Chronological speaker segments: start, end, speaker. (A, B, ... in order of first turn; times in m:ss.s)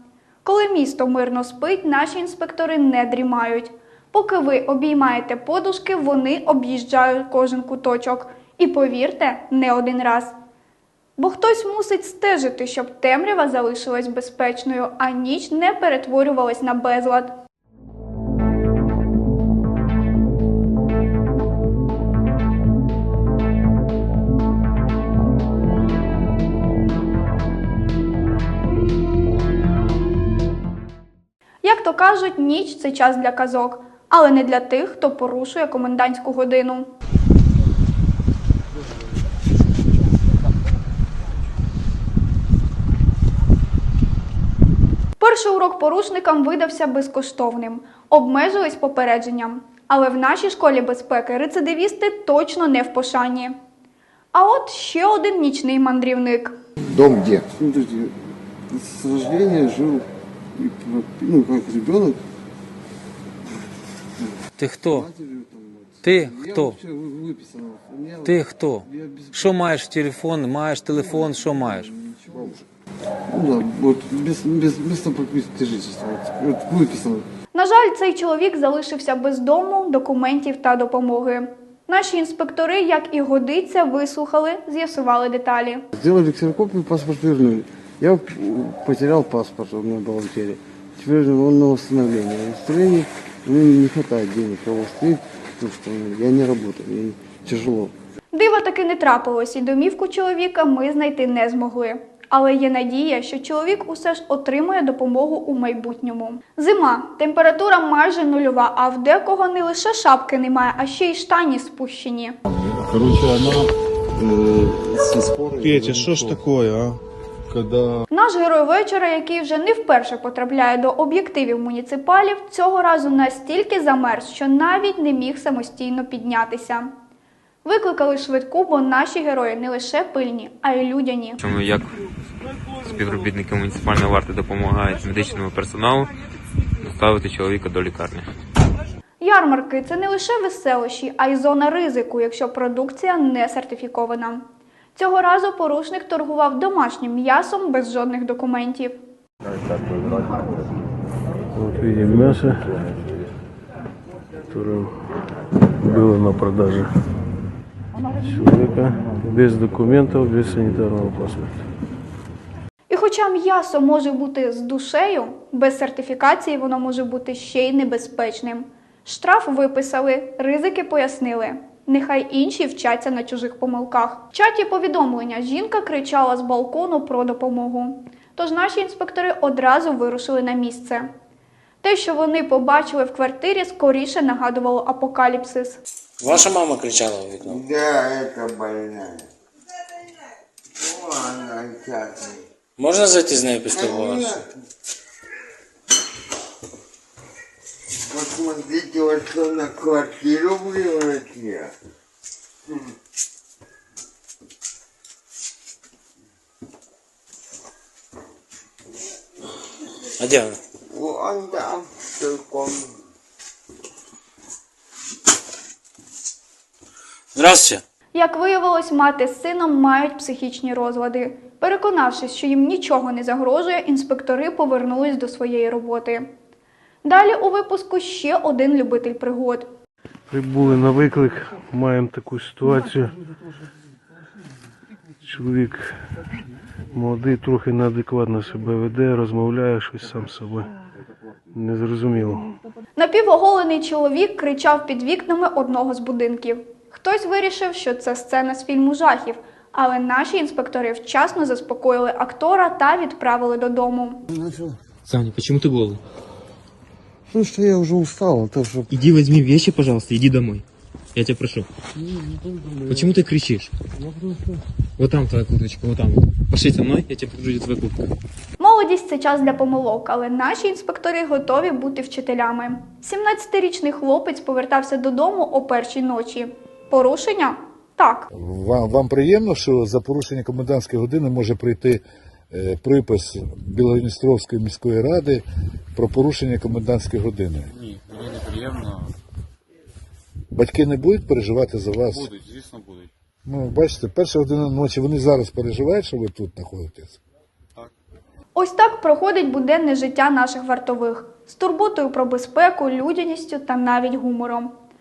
0:00.4-0:10.3 A
0:11.2-0:17.4 A
0:31.6-0:36.9 A
0:45.2-0:53.6 A
0:54.3-0:56.5 A
0:57.3-0:58.1 B
0:58.7-1:00.0 B
1:00.6-1:02.2 B
1:04.6-1:05.1 C
1:04.9-1:09.5 B
1:06.0-1:06.8 C
1:08.2-1:11.9 C
1:11.0-1:12.6 B
1:13.3-1:17.2 B
1:17.5-1:25.8 A
1:26.0-1:37.9 B
1:38.3-1:52.3 A
1:52.9-1:53.6 B
1:54.2-1:55.9 B
1:55.6-1:57.0 D
1:58.1-2:06.9 A
2:07.6-2:11.4 A
2:11.4-2:11.9 E
2:12.7-2:16.1 E
2:16.8-2:18.3 E
2:19.2-2:29.0 A
2:31.5-2:32.9 D
2:34.5-2:35.0 D
2:35.8-2:36.9 D
2:38.2-2:41.6 D
2:42.9-3:01.1 A
3:01.8-3:05.8 A
3:06.2-3:07.6 F
3:07.4-3:09.3 G
3:10.8-3:12.4 G
3:12.8-3:14.4 F
3:13.6-3:14.5 G
3:18.0-3:21.7 G
3:30.2-3:30.6 F
3:30.9-3:32.9 G
3:37.3-3:37.8 F
3:38.1-3:46.3 A
3:47.0-3:49.7 A
3:50.3-3:53.1 D
3:55.2-3:56.0 D
3:56.9-4:00.7 D
4:01.5-4:02.5 D
4:03.0-4:14.2 A
4:14.3-4:14.8 B
4:15.0-4:16.0 H
4:17.3-4:18.9 B
4:18.9-4:21.7 H
4:22.0-4:23.1 B
4:22.9-4:23.7 H
4:24.0-4:24.6 B
4:25.0-4:28.1 H
4:28.6-4:38.3 A
4:38.3-4:45.4 I
4:45.9-4:47.7 I
4:47.8-4:49.1 J
4:50.5-4:52.3 I
4:52.1-4:53.1 J
4:53.4-4:57.2 I
4:58.5-5:04.7 A